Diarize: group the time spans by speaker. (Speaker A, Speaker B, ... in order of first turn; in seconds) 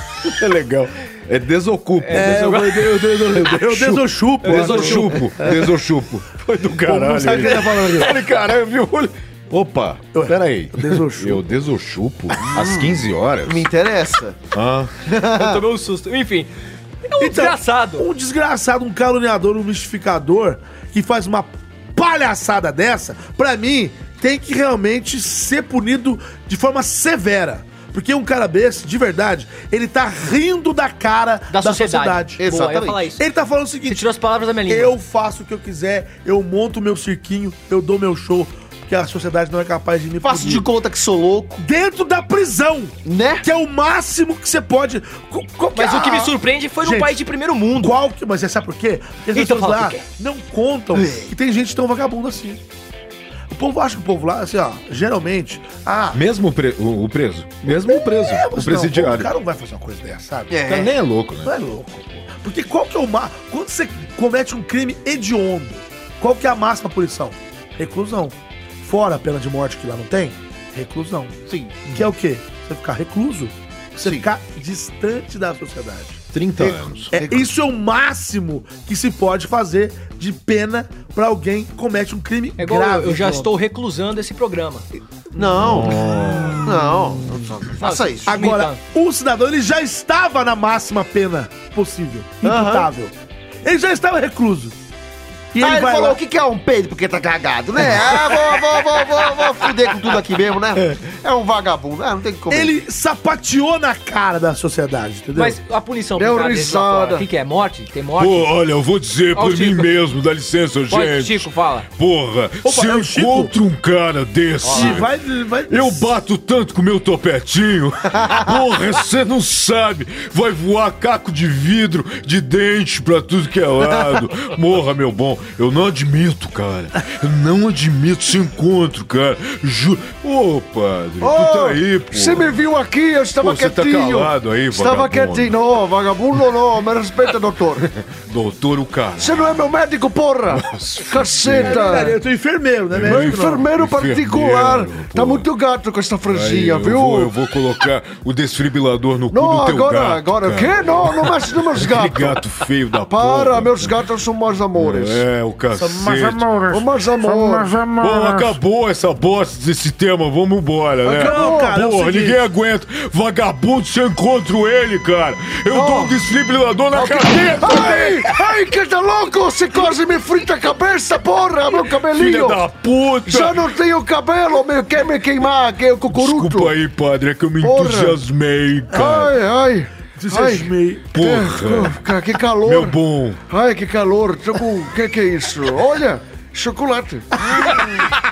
Speaker A: 0.2-13.7, 14.5-14.9, 56.1-59.3, 60.6-61.5, 76.3-77.1, 85.5-86.8, 108.2-115.1, 115.7-132.5, 133.4-135.6, 138.0-139.6, 140.5-141.9, 142.9-145.4, 146.3-153.9, 154.8-156.7, 157.8-168.3, 172.1-173.6, 176.1-179.3, 181.1-182.0, 182.6-183.4
Speaker B: 2.0-2.5, 4.4-5.3, 15.3-16.5, 17.1-18.0, 31.5-33.2, 33.9-34.9, 45.7-47.9, 49.3-50.0, 82.6-84.8, 87.8-88.8, 105.3-108.5, 109.3-109.9, 110.9-111.8, 114.7-114.9
Speaker C: 2.1-5.7, 6.8-8.2, 10.1-11.4, 17.2-32.4, 33.2-34.0, 34.7-40.6, 41.6-47.2, 47.7-52.6, 53.5-56.2, 57.7-60.6, 61.4-76.2, 77.2-83.5, 88.2-93.1, 93.6-94.7, 95.5-96.2, 102.5-105.6, 112.6-113.5, 114.7-116.0, 141.6-143.7, 155.7-156.6, 161.1-162.4, 180.2-181.2, 187.4-188.1
Speaker D: 12.5-12.9, 13.4-14.4, 15.1-15.6, 32.4-33.1, 40.2-41.6, 43.0-43.4, 50.9-51.3, 60.5-60.9, 71.5-71.9, 74.0-74.3, 76.6-77.5, 85.3-86.0, 86.6-88.2, 92.4-92.9, 95.6-102.8
Speaker E: 106.2-107.2, 131.2-137.8, 139.2-142.2, 143.0-147.3, 149.3-152.4, 153.1-155.2, 156.6-157.8, 161.0-161.8, 165.7-166.2, 166.9-172.7, 173.2-176.7, 177.6-178.2, 178.9-182.9, 183.5-187.8